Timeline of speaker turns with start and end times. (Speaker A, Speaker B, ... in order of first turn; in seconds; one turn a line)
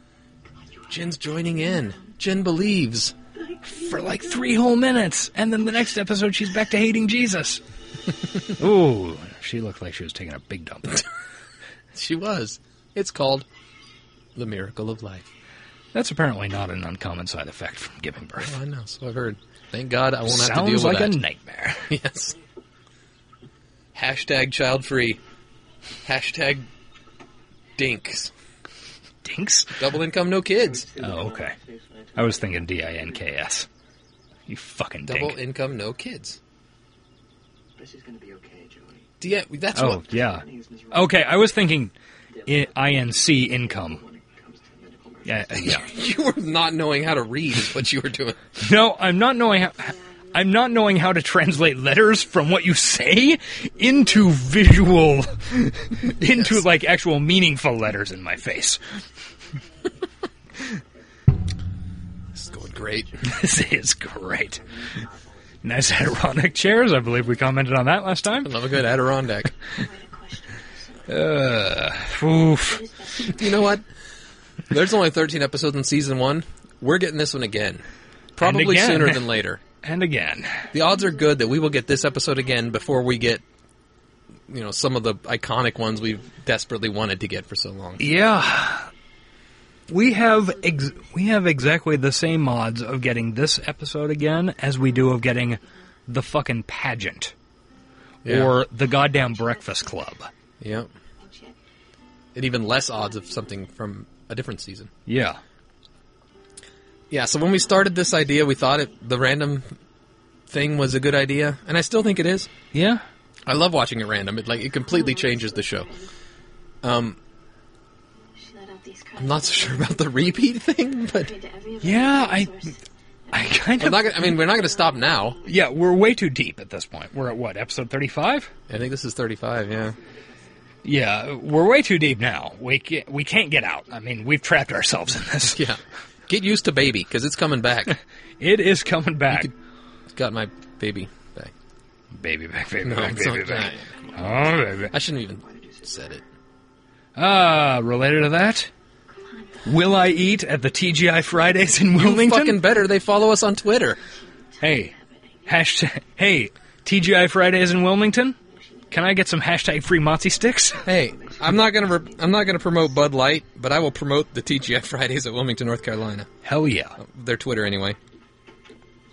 Speaker A: 0.7-2.0
Speaker B: 0.9-3.1
Speaker A: 3.4-4.5
Speaker C: 3.6-7.6
Speaker C: 8.6-11.0
Speaker B: 11.9-13.5
Speaker B: 14.3-15.3
Speaker C: 15.9-18.6
Speaker B: 18.4-21.2
Speaker C: 20.2-21.9
Speaker B: 21.9-22.4
Speaker B: 23.9-25.2
Speaker B: 26.1-26.7
Speaker B: 27.8-28.3
Speaker C: 29.2-29.8
Speaker B: 29.8-30.9
Speaker D: 30.6-33.3
Speaker C: 31.0-31.6
Speaker C: 32.2-33.7
Speaker C: 34.5-35.4
Speaker B: 35.1-36.4
Speaker D: 37.8-39.1
Speaker B: 39.2-40.1
Speaker C: 39.7-41.9
Speaker D: 39.9-41.6
Speaker D: 42.4-45.9
Speaker C: 42.5-44.0
Speaker C: 45.2-45.9
Speaker B: 45.5-48.4
Speaker C: 48.6-59.0
Speaker A: 49.8-50.6
Speaker B: 56.3-56.6
Speaker A: 59.5-59.9
Speaker B: 62.4-63.2
Speaker D: 62.5-63.3
Speaker C: 63.2-65.0
Speaker D: 64.3-65.5
Speaker C: 65.6-68.6
Speaker B: 68.4-69.5
Speaker A: 69.8-71.1
Speaker C: 71.1-72.9
Speaker A: 72.5-73.7
Speaker B: 73.3-73.8
Speaker B: 74.7-77.8
Speaker B: 78.4-79.6
Speaker C: 78.4-79.3
Speaker C: 79.8-80.7
Speaker A: 80.7-81.1
Speaker B: 80.7-83.4
Speaker B: 84.5-88.2
Speaker C: 88.0-88.9
Speaker C: 89.9-97.3
Speaker B: 98.2-98.5
Speaker C: 98.2-100.3
Speaker B: 100.6-100.9
Speaker A: 101.2-101.5
Speaker B: 102.3-104.9
Speaker C: 105.1-105.4
Speaker B: 107.1-109.7
Speaker B: 110.5-112.5
Speaker C: 112.7-113.0
Speaker B: 113.5-115.9
Speaker A: 114.6-116.1
Speaker B: 116.8-117.2
Speaker A: 118.4-120.2
Speaker B: 119.2-121.3
Speaker A: 121.1-122.8
Speaker C: 121.8-122.8
Speaker A: 123.3-125.5
Speaker C: 123.3-124.4
Speaker B: 123.8-125.4
Speaker C: 125.4-128.5
Speaker B: 128.7-130.0
Speaker C: 130.8-135.7
Speaker B: 135.5-138.0
Speaker C: 137.9-139.5
Speaker B: 140.1-141.5
Speaker C: 142.1-144.9
Speaker B: 142.8-143.9
Speaker B: 144.9-146.2
Speaker D: 145.5-145.9
Speaker C: 147.2-148.7
Speaker A: 149.1-149.9
Speaker C: 149.6-152.6
Speaker B: 151.9-154.0
Speaker A: 154.2-155.6
Speaker C: 154.6-154.9
Speaker C: 155.5-158.4
Speaker A: 158.4-159.1
Speaker C: 158.9-160.9
Speaker A: 160.8-162.5
Speaker B: 160.8-166.3
Speaker C: 166.4-167.0
Speaker B: 167.0-168.0